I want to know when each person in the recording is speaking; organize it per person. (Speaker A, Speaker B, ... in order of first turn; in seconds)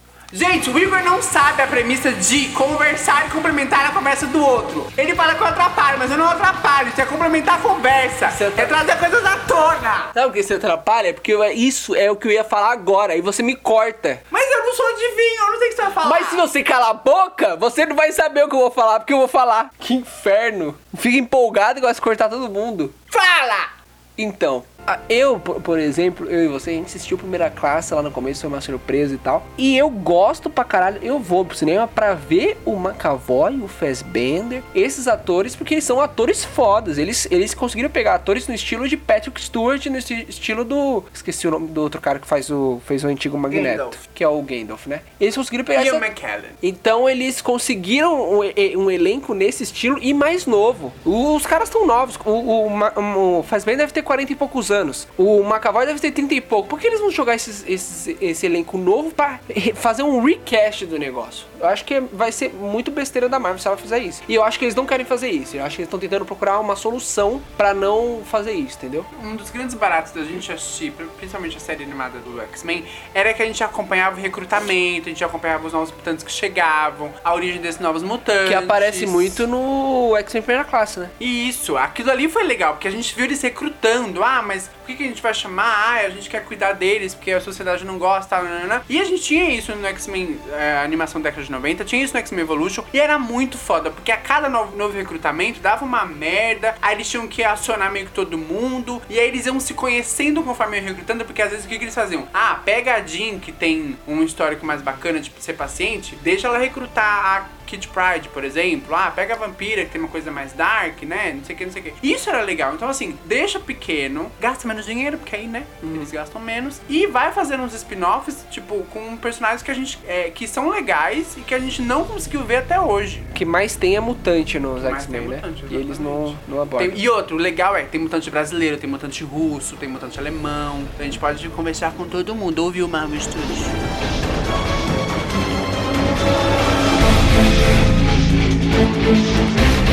Speaker A: 0.3-10.1, 14.3-16.4, 23.2-23.6, 43.5-44.0, 45.7-46.6, 69.1-79.4, 81.2-123.3, 124.8-133.8
Speaker B: 8.2-8.8, 10.1-14.2, 16.0-23.1, 24.2-46.0, 46.6-69.1, 78.4-81.1, 123.3-127.0